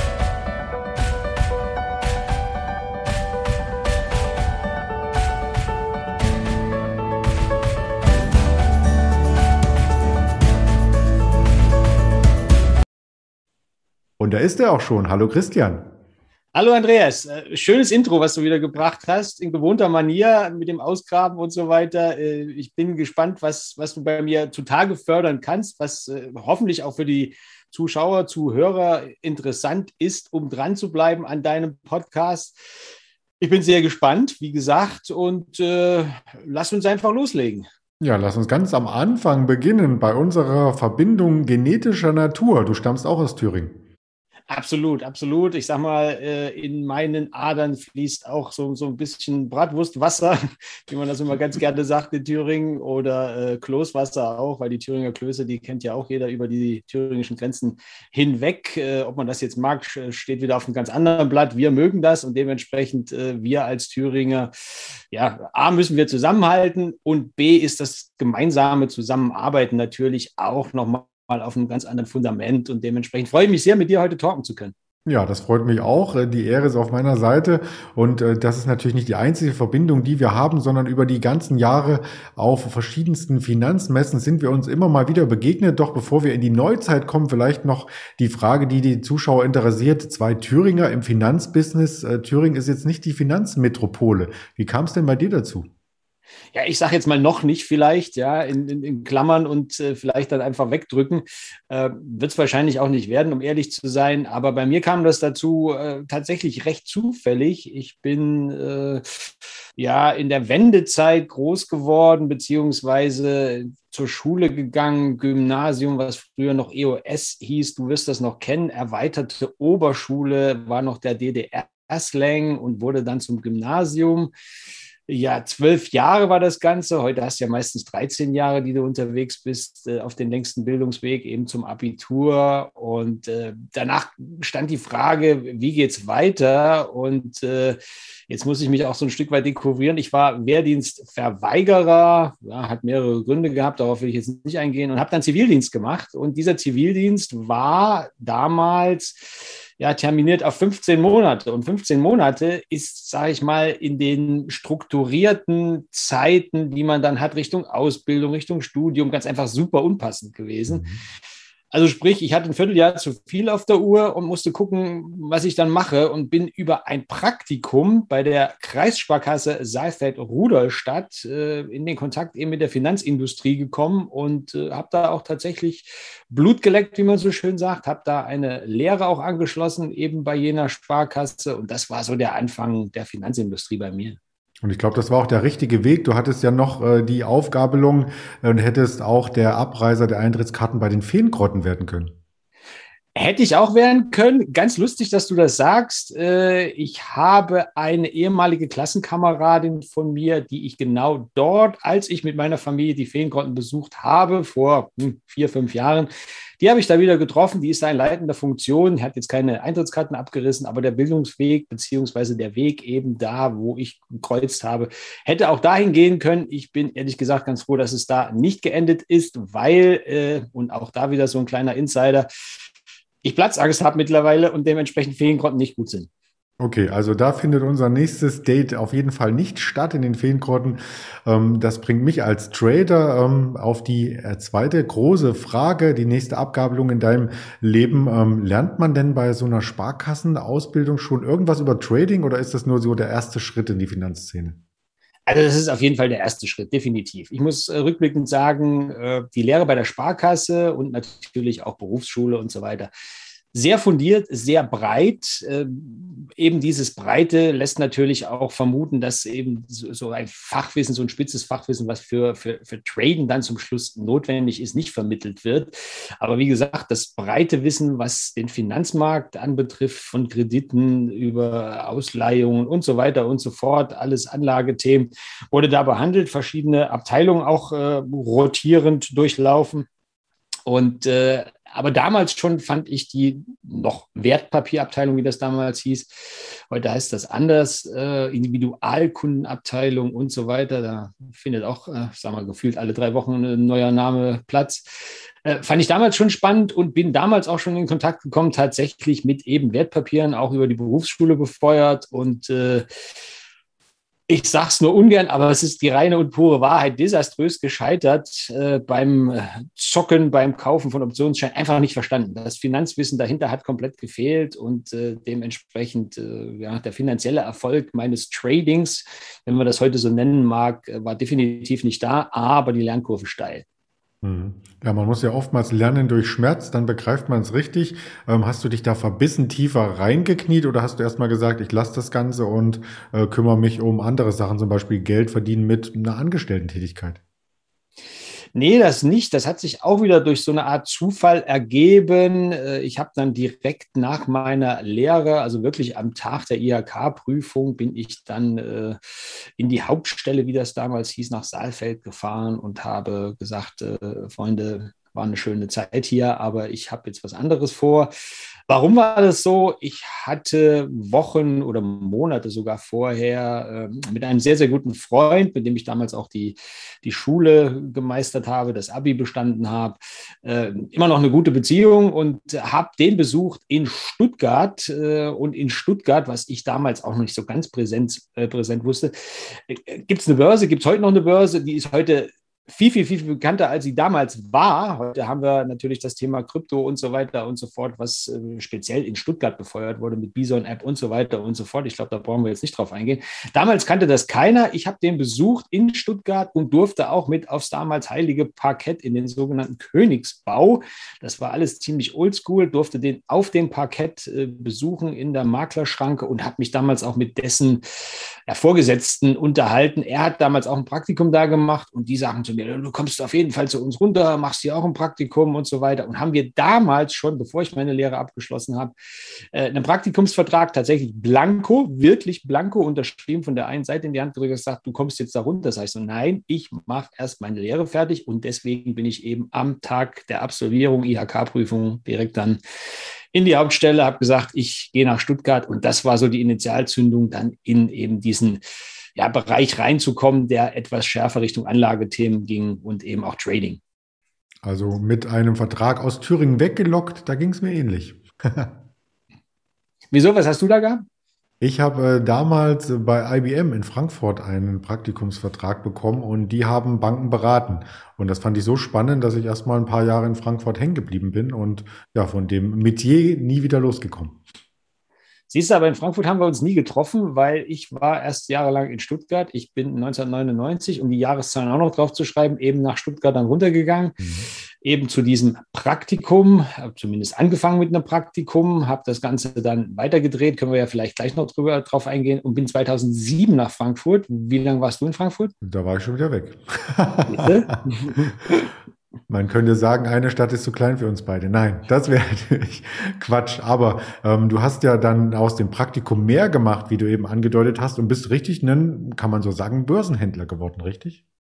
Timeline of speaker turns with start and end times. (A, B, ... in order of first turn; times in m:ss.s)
0:14.2-0:15.9 A
0:16.5-0:32.6 B
0:33.4-0:37.7 B
0:38.0-0:43.8 A
0:44.5-1:14.7 B
1:15.0-1:35.7 A
1:36.5-2:04.3 B
2:05.1-2:40.8 B
2:40.7-2:41.0 A
2:41.7-3:04.2 B
3:04.6-3:12.1 A
3:13.2-3:26.1 B
3:26.6-3:42.3 B
3:43.2-3:46.1 B
3:46.6-4:04.6 A
4:05.3-4:12.9 B
4:13.5-4:39.9 B
4:40.6-5:02.8 B
5:04.3-5:23.6 B
5:24.2-5:37.2 A
5:38.5-5:49.0 B
5:49.6-5:58.1 B
5:58.7-7:12.6 B
7:13.3-7:18.6 B
7:19.2-7:23.8 B
7:24.6-7:28.7 A
7:30.1-7:31.0 B
7:31.6-7:44.4 A
7:45.5-7:54.2 B
7:54.2-7:54.5 A
7:54.8-8:05.5 B
8:05.6-8:08.6 A
8:07.2-8:08.6 B
8:09.3-8:21.2 A